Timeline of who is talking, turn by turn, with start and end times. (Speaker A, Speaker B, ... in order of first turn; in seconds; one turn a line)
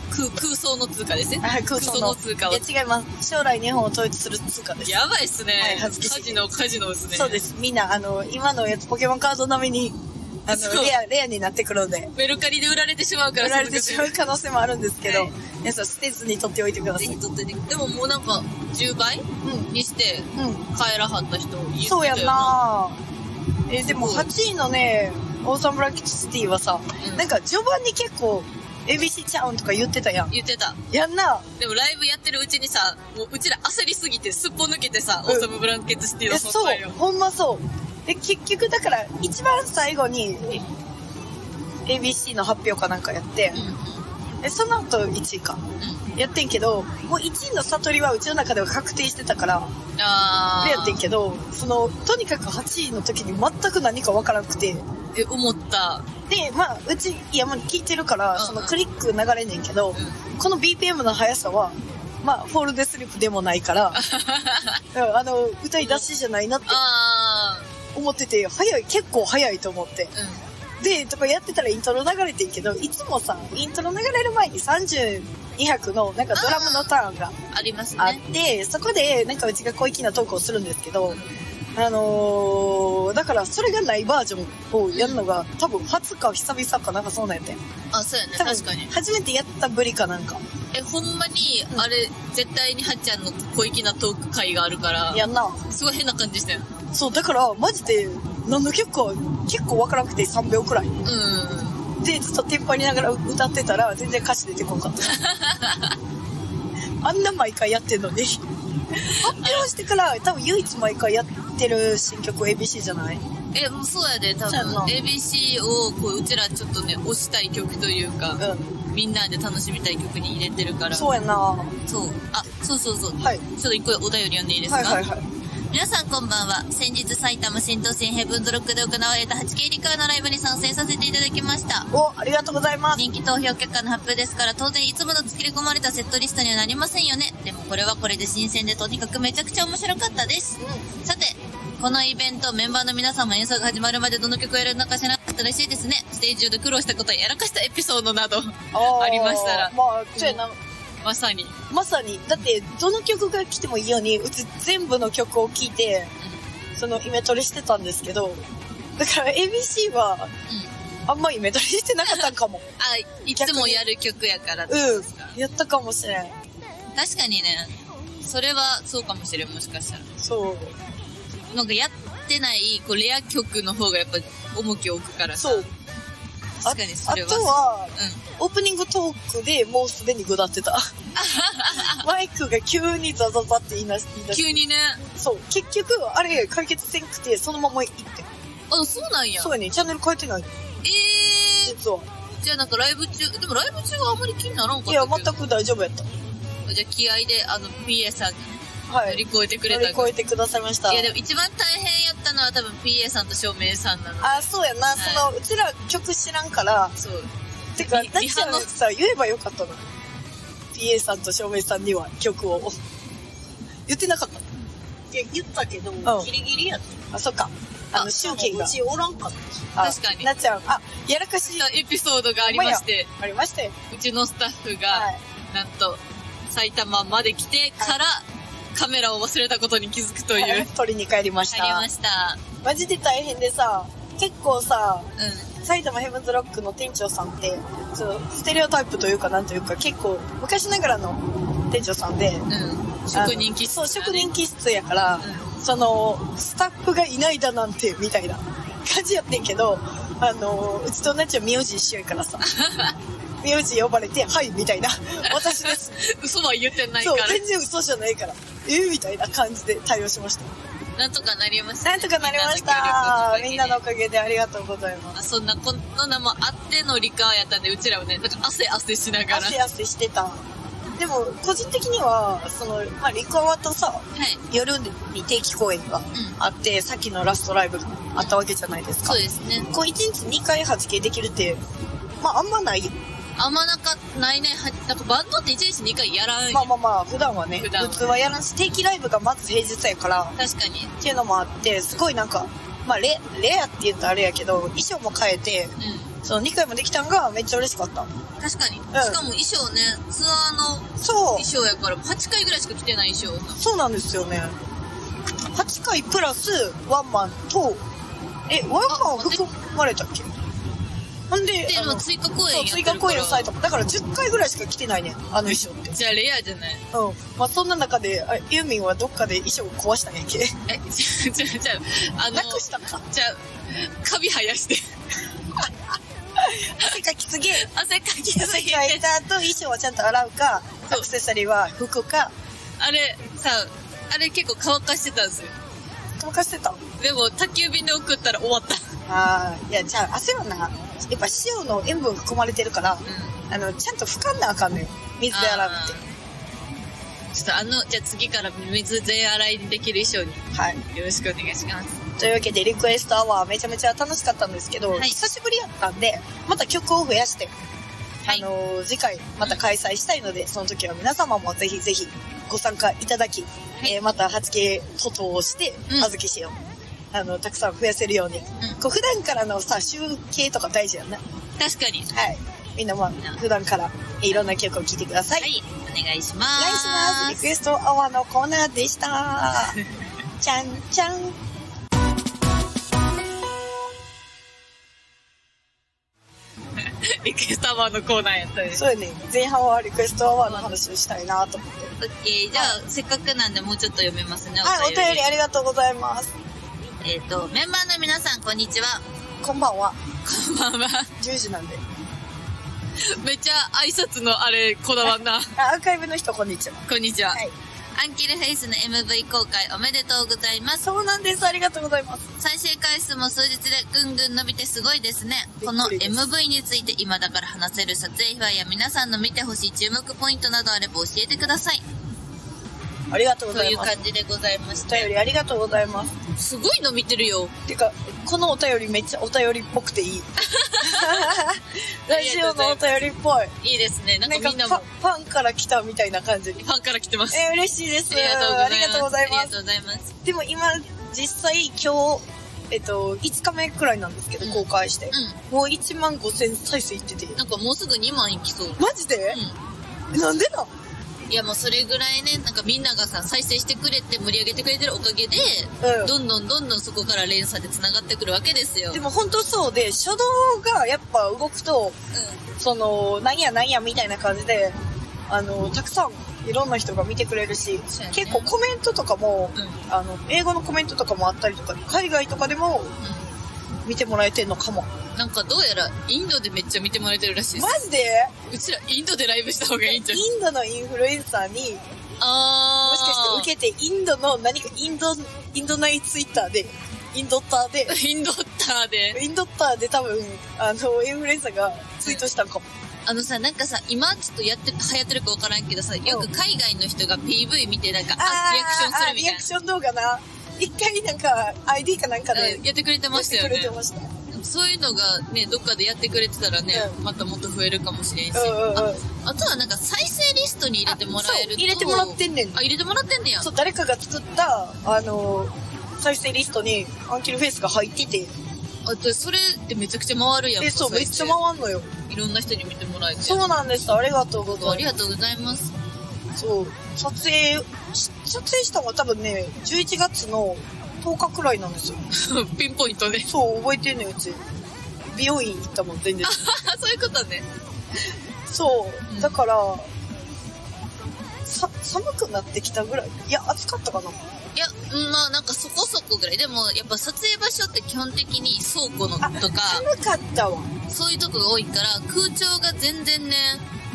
Speaker A: 0.1-2.6
Speaker B: 1.4-5.0
Speaker A: 4.8-7.4
Speaker B: 5.6-6.4
Speaker B: 7.1-12.1
Speaker A: 10.5-10.9
Speaker A: 12.1-14.2
Speaker B: 13.4-17.1
Speaker A: 15.0-15.3
Speaker A: 16.9-22.6
Speaker B: 19.4-19.7
Speaker B: 20.4-20.6
Speaker B: 21.8-23.0
Speaker B: 23.7-30.3
Speaker A: 23.9-24.3
Speaker A: 27.0-27.3
Speaker A: 30.3-30.8
Speaker B: 30.9-31.5
Speaker A: 31.6-37.0
Speaker B: 36.3-40.6
Speaker B: 41.9-43.6
Speaker A: 43.5-44.0
Speaker B: 44.4-45.6
Speaker A: 45.8-46.0
Speaker B: 46.1-49.7
Speaker A: 50.0-51.0
Speaker B: 50.6-54.8
Speaker A: 55.1-56.0
Speaker B: 56.3-64.0
Speaker A: 58.3-58.8
Speaker A: 63.9-64.8
Speaker B: 64.9-66.8
Speaker A: 65.8-66.1
Speaker A: 66.7-67.7
Speaker B: 67.9-70.1
Speaker A: 70.1-70.4
Speaker B: 70.8-77.3
Speaker A: 76.3-76.9
Speaker A: 77.5-78.2
Speaker B: 78.0-81.2
Speaker B: 81.7-87.6
Speaker A: 84.9-85.2
Speaker A: 87.9-88.9
Speaker B: 88.4-90.4
Speaker A: 90.7-96.7
Speaker B: 95.1-95.6
Speaker B: 96.9-100.9
Speaker A: 101.0-101.8
Speaker B: 102.0-105.2
Speaker A: 105.0-106.0
Speaker B: 107.0-108.4
Speaker A: 109.0-109.7
Speaker B: 109.1-113.2
Speaker A: 113.5-121.1
Speaker B: 114.5-114.9
Speaker B: 118.4-118.8
Speaker B: 120.9-121.8
Speaker A: 121.9-125.0
Speaker B: 124.7-125.2
Speaker A: 125.7-131.9
Speaker B: 131.9-133.0
Speaker A: 132.9-150.4
Speaker B: 140.6-140.8
Speaker B: 148.7-150.6
Speaker A: 151.0-151.6
Speaker B: 151.7-156.1
Speaker B: 156.8-158.4
Speaker B: 159.0-160.3
Speaker B: 161.1-162.6
Speaker A: 162.1-165.4
Speaker B: 163.3-163.8
Speaker B: 164.7-166.3
Speaker A: 166.9-170.1
Speaker B: 170.2-170.8
Speaker A: 171.5-175.7
Speaker B: 175.4-175.7
Speaker A: 176.6-178.2
Speaker B: 176.6-180.9
Speaker A: 181.2-182.0
Speaker B: 181.7-188.3
Speaker A: 184.3-185.0
Speaker A: 188.7-189.5
Speaker B: 189.4-190.5
Speaker A: 190.8-191.8
Speaker B: 191.6-192.1
Speaker A: 192.4-195.3
Speaker B: 194.9-196.1
Speaker A: 196.7-200.1
Speaker B: 198.9-201.1
Speaker A: 200.9-205.3
Speaker B: 204.2-206.9
Speaker A: 207.0-208.7
Speaker B: 207.8-209.8
Speaker B: 210.7-212.8
Speaker B: 213.9-214.4
Speaker C: 215.1-216.9
Speaker B: 216.0-216.3
Speaker B: 217.1-218.8
Speaker A: 217.9-218.2
Speaker C: 218.0-219.4
Speaker B: 219.7-221.7
Speaker A: 219.8-220.3
Speaker A: 221.4-223.1
Speaker B: 222.4-223.8
Speaker A: 223.9-230.7
Speaker B: 224.9-225.2
Speaker B: 230.3-231.9
Speaker A: 231.5-232.4
Speaker B: 232.6-235.1
Speaker A: 235.2-235.5
Speaker B: 235.6-242.5
Speaker A: 242.5-244.3
Speaker B: 243.1-252.5
Speaker A: 245.2-245.5
Speaker A: 252.4-252.9
Speaker B: 253.4-256.0
Speaker A: 255.3-257.4
Speaker B: 257.0-260.5
Speaker A: 260.9-263.8
Speaker B: 261.8-265.2
Speaker A: 265.1-269.6
Speaker B: 269.3-270.4
Speaker B: 271.0-281.6
Speaker A: 274.1-274.4
Speaker A: 279.0-279.7
Speaker B: 282.2-282.9
Speaker A: 283.4-286.7
Speaker B: 286.5-290.4
Speaker A: 287.6-288.2
Speaker A: 290.4-290.9
Speaker B: 291.0-298.1
Speaker A: 295.8-296.1
Speaker A: 298.4-303.6
Speaker B: 298.9-299.2
Speaker B: 301.0-301.4
Speaker B: 303.6-304.6
Speaker B: 305.3-307.8
Speaker B: 308.5-310.3
Speaker A: 308.9-309.4
Speaker B: 311.3-315.9
Speaker A: 311.6-313.5
Speaker A: 315.5-316.8
Speaker B: 316.9-320.6
Speaker A: 320.7-324.9
Speaker B: 322.3-323.0
Speaker B: 326.4-327.7
Speaker A: 327.5-329.1
Speaker B: 328.3-332.3
Speaker A: 332.8-335.6
Speaker B: 336.2-336.8
Speaker A: 337.0-338.9
Speaker B: 339.1-345.9
Speaker A: 343.0-343.4
Speaker A: 345.3-346.1
Speaker A: 347.3-352.0
Speaker B: 350.5-350.8
Speaker B: 352.2-357.5
Speaker A: 354.9-355.2
Speaker B: 358.2-366.6
Speaker A: 365.9-366.1
Speaker B: 367.1-371.2
Speaker A: 371.6-372.1
Speaker B: 372.1-375.5
Speaker A: 375.4-377.4
Speaker B: 376.6-379.8
Speaker B: 380.4-381.4
Speaker A: 386.8-388.8
Speaker B: 388.7-391.9
Speaker A: 390.4-390.8
Speaker A: 392.0-395.2
Speaker B: 394.6-396.3
Speaker A: 397.0-399.0
Speaker B: 399.4-400.0
Speaker A: 400.2-401.1
Speaker B: 401.2-401.8
Speaker A: 403.0-405.6
Speaker B: 405.6-407.5
Speaker A: 406.9-407.4
Speaker A: 407.9-410.8
Speaker B: 410.8-412.3
Speaker A: 412.4-421.8
Speaker B: 415.6-416.3
Speaker B: 423.1-423.9
Speaker A: 423.5-425.1
Speaker B: 424.8-426.1
Speaker A: 426.3-427.5
Speaker B: 427.6-430.3
Speaker A: 430.4-431.4
Speaker B: 430.8-433.5
Speaker A: 432.1-433.1
Speaker A: 433.6-434.8
Speaker B: 434.2-436.6
Speaker A: 436.6-437.5
Speaker B: 437.3-439.5
Speaker A: 438.1-440.1
Speaker B: 440.2-447.4
Speaker A: 444.4-445.4
Speaker A: 447.4-449.6
Speaker B: 448.8-449.4
Speaker B: 450.1-450.7
Speaker A: 451.3-459.0
Speaker B: 455.8-456.1
Speaker B: 458.9-462.0
Speaker A: 462.1-462.4
Speaker B: 462.6-473.0
Speaker A: 467.9-468.5
Speaker A: 469.5-469.8
Speaker A: 473.0-473.3
Speaker B: 473.8-474.9
Speaker A: 475.1-477.8
Speaker B: 477.6-478.3
Speaker A: 478.5-480.2
Speaker B: 479.8-481.8
Speaker A: 482.2-483.5
Speaker B: 482.8-488.0
Speaker A: 487.9-489.2
Speaker B: 489.1-492.6
Speaker A: 493.1-499.5
Speaker B: 498.1-504.1
Speaker A: 502.3-503.7
Speaker A: 504.3-513.5
Speaker B: 508.3-509.0
Speaker B: 510.9-512.6
Speaker B: 513.4-518.3
Speaker A: 518.8-521.4
Speaker B: 520.6-521.9
Speaker A: 522.1-523.4
Speaker B: 523.2-524.9
Speaker A: 524.5-525.7
Speaker B: 526.4-532.0
Speaker A: 532.1-533.3
Speaker B: 533.3-534.4
Speaker B: 535.1-536.4
Speaker A: 536.2-537.5
Speaker B: 538.5-539.9
Speaker A: 539.1-539.4
Speaker B: 541.4-544.2
Speaker A: 544.5-549.9
Speaker B: 549.2-550.7
Speaker A: 550.9-553.6